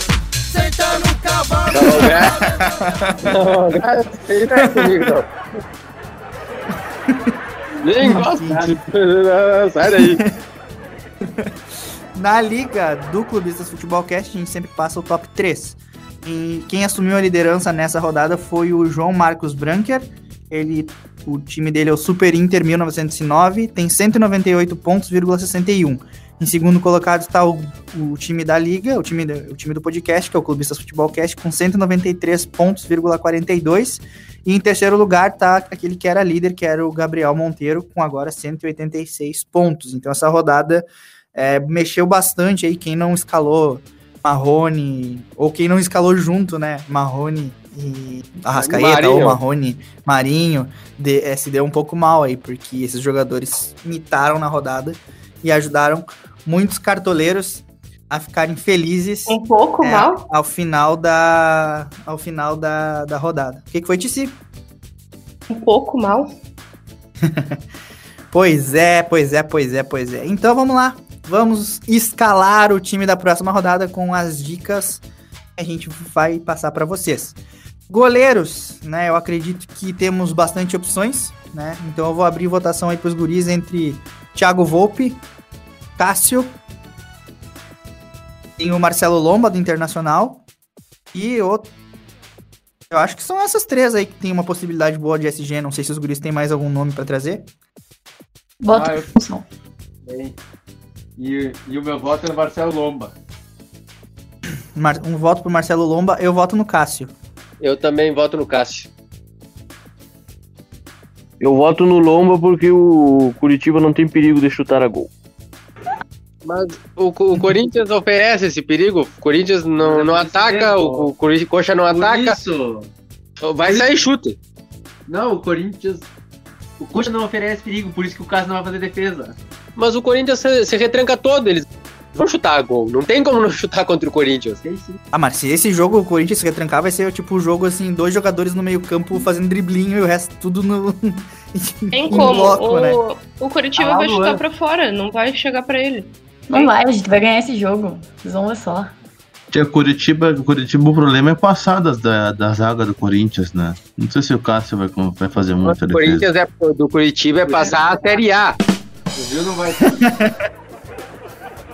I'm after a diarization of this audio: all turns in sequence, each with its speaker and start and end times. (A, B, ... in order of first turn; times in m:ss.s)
0:01.7-0:02.4 A
0:01.8-0:03.4 B
0:03.3-0:05.3 A
0:04.6-0:05.1 B
0:07.1-0:07.4 B
0:07.8-0:10.2 A
0:08.0-0:08.8 B
0:09.8-0:10.3 B
0:11.2-0:11.5 B
0:12.2-1:04.4 B
0:48.6-0:49.4 A
0:59.3-1:00.3 C
1:05.5-1:06.3 C
1:07.2-1:07.6 B
1:08.3-1:15.0 B
1:15.6-1:17.4 B
1:17.9-1:25.2 B
1:26.0-1:26.6 B
1:28.6-1:30.4 B
1:31.1-1:31.7 B
1:32.9-1:37.5 B
1:38.6-1:39.4 D
1:38.7-1:39.0 E
1:40.1-1:40.4 E
1:41.2-1:43.1 E
1:44.8-1:47.1 B
1:47.6-1:48.9 A
1:51.4-1:55.1 F
1:56.4-2:02.4 A
1:59.8-2:01.1 E
2:01.9-2:02.9 E
2:03.4-2:04.4 A
2:05.1-2:06.1 E
2:06.8-2:09.4 E
2:09.8-2:14.6 A
2:14.6-2:15.0 E
2:15.1-2:23.0 B
2:21.9-2:26.7 C
2:23.8-2:24.4 E
2:26.5-2:28.9 D
2:29.5-2:36.3 G
2:35.6-2:38.6 A
2:37.5-2:38.2 E
2:39.2-2:40.0 E
2:39.9-2:40.4 B